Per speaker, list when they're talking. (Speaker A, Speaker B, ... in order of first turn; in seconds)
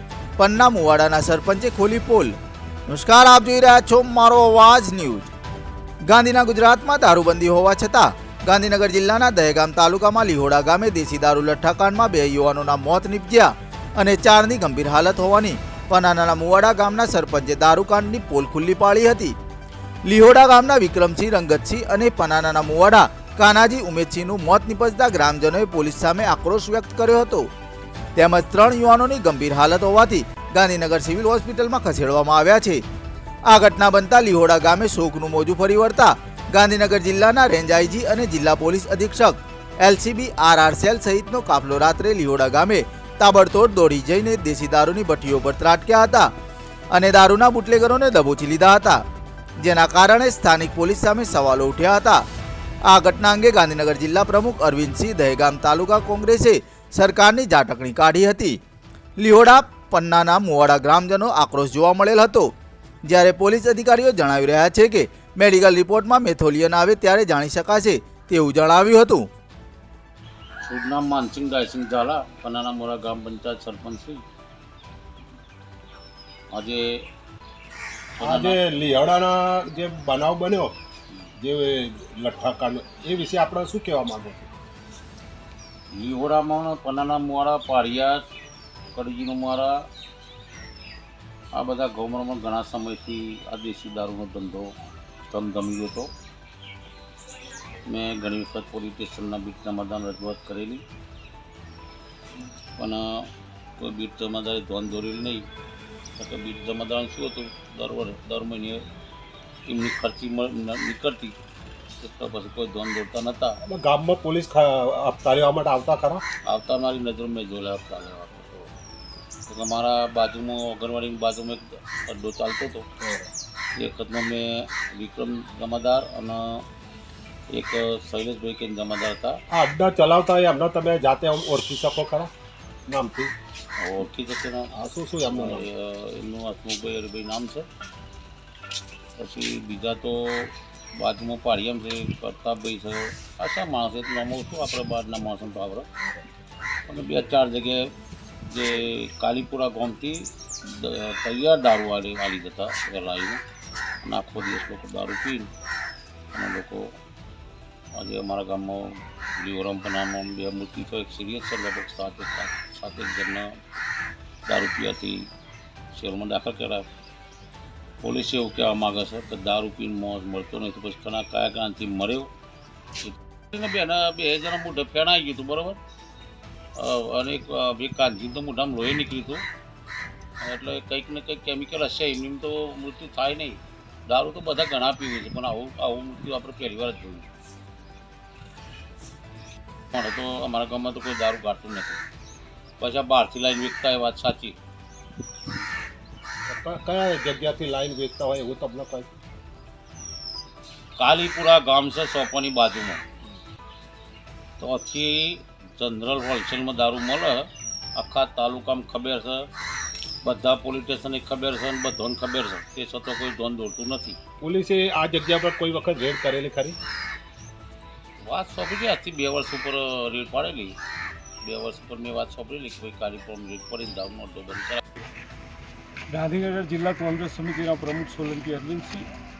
Speaker A: 0.4-2.3, 2.9-5.3, 6.1-19.4, 20.1-27.5, 28.2-32.8, 33.5-46.3, 47.0-49.0, 49.6-52.2, 52.9-58.6, 59.2-62.5, 63.1-69.3
Speaker B: 70.6-74.2, 76.5-76.9, 78.2-78.6, 85.9-88.2, 88.9-89.8, 91.5-94.7, 95.3-96.1, 97.9-100.8, 102.8-105.4, 106.2-108.8, 109.7-111.4, 112.0-113.6, 116.5-118.7, 119.5-122.8, 123.8-126.6, 127.5-129.4, 133.8-134.7, 135.3-137.7, 139.2-145.9, 146.9-147.9, 148.5-153.4, 154.0-155.5, 156.3-156.9, 158.0-163.5, 164.5-165.3, 165.9-166.9, 168.0-172.3, 173.0-175.8, 176.8-179.4, 180.4-187.3, 189.9-192.0, 192.8-194.6, 201.0-203.0, 204.6-209.5, 210.2-214.2, 218.2-220.8, 221.4-224.8
Speaker C: 78.2-80.8, 81.4-84.5, 113.7-116.2, 123.0-123.3, 129.5-132.3, 132.9-133.3, 134.7-135.7, 196.5-199.1, 214.4-216.8
Speaker D: 226.1-229.1